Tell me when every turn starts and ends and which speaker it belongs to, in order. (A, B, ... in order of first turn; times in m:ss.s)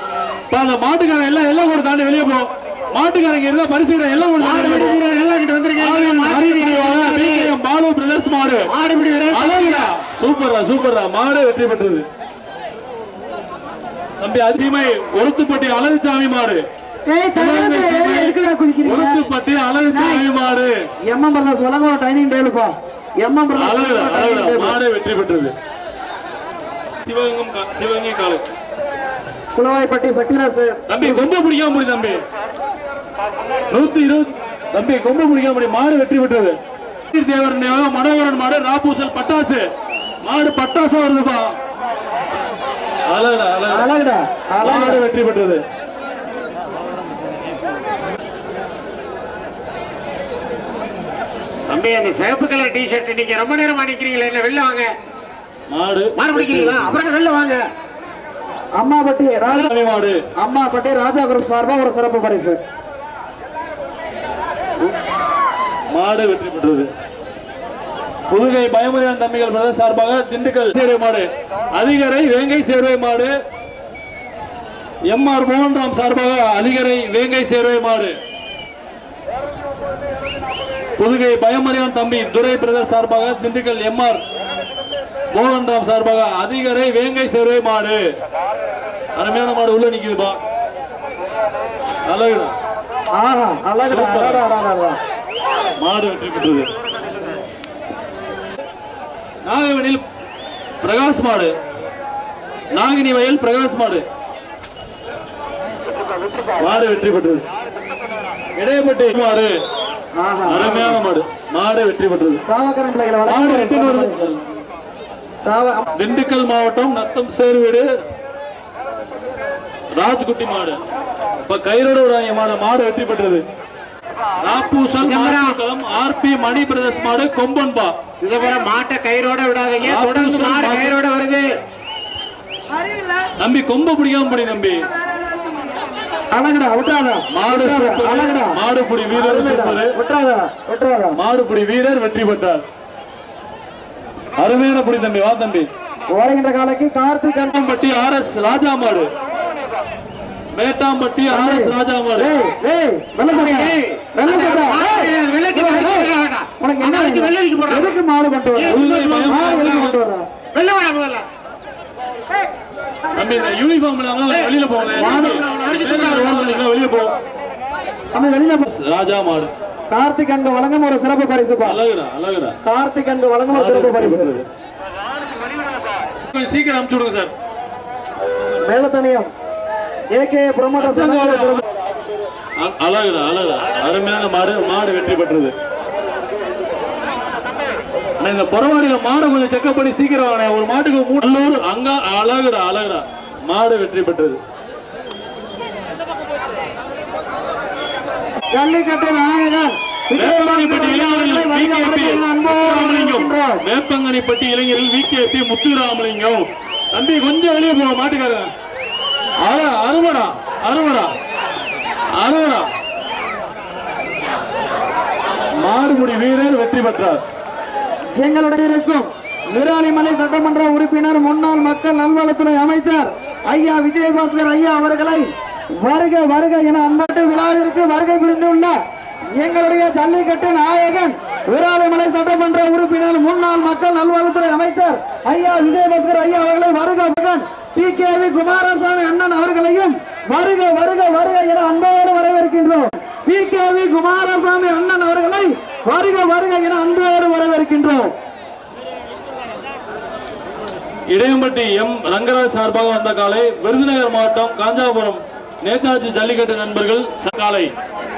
0:00.5-0:05.0 A
0:04.4-0:07.5 B
0:05.8-0:08.7 A
0:08.7-0:09.9 B
0:09.3-0:12.0 A
0:14.2-0:16.6 A
0:17.0-0:19.2 C
0:17.3-0:20.7 A
0:19.9-0:20.2 C
0:21.1-0:24.8 D
0:23.6-0:25.5 A
0:27.0-0:28.4 A
0:29.5-0:31.2 D
0:30.9-0:32.2 A
0:33.7-0:36.6 A
0:37.1-0:39.6 A
0:40.2-0:41.5 A
0:43.1-0:43.9 A
0:43.7-0:45.0 D
0:44.6-0:45.6 A
0:51.7-0:54.9 B
0:55.7-0:56.7 A
0:56.2-0:57.6 B
0:58.8-0:59.7 D
0:59.5-1:00.2 A
1:00.4-1:02.6 D
1:05.9-1:06.9 A
1:08.3-1:13.3 A
1:15.1-1:18.2 A
1:21.0-1:24.2 A
1:25.3-1:28.0 A
1:29.2-1:30.4 A
1:32.1-1:32.5 A
1:33.1-1:35.0 D
1:33.8-1:34.4 A
1:35.8-1:36.7 A
1:39.4-1:40.0 A
1:40.8-1:41.5 A
1:42.7-1:44.0 A
1:46.6-1:47.4 A
1:48.6-1:49.5 A
1:50.2-1:51.0 D
1:50.5-1:52.4 A
1:52.4-1:54.3 D
1:53.2-1:54.4 A
1:55.4-1:55.9 D
1:56.0-1:57.9 A
1:59.9-2:00.8 A
2:01.5-2:03.4 A
2:04.4-2:07.9 A
2:05.0-2:05.6 B
2:08.2-2:11.5 B
2:09.8-2:10.9 A
2:12.7-2:13.3 C
2:13.4-2:14.8 A
2:14.8-2:15.8 C
2:16.3-2:18.6 D
2:17.3-2:19.9 A
2:19.1-2:21.2 D
2:21.1-2:22.6 A
2:24.4-2:25.7 A
2:26.1-2:27.6 D
2:27.5-2:29.1 A
2:30.5-2:32.3 A
2:31.3-2:40.3 D
2:33.3-2:38.0 B
2:38.6-2:39.8 B
2:38.6-2:40.0 A
2:40.5-2:41.2 B
2:43.1-2:43.5 C
2:43.1-2:47.1 A
2:44.3-2:46.6 B
2:44.9-2:45.4 D
2:48.1-2:48.7 D
2:48.7-2:49.5 A
2:49.9-2:51.8 D
2:51.6-2:52.6 A
2:52.6-2:54.3 D
2:53.5-2:54.5 A
2:56.3-2:57.3 A
2:58.6-2:59.3 D
3:00.1-3:01.6 D
3:00.8-3:01.6 A
3:02.6-3:05.5 A
3:08.2-3:14.4 A
3:18.5-3:23.6 D
3:20.1-3:28.5 A
3:29.4-3:31.1 A
3:32.2-3:32.7 A
3:35.6-3:37.2 A
3:38.2-3:48.8 D
3:49.3-4:08.1 D
4:11.1-4:17.7 A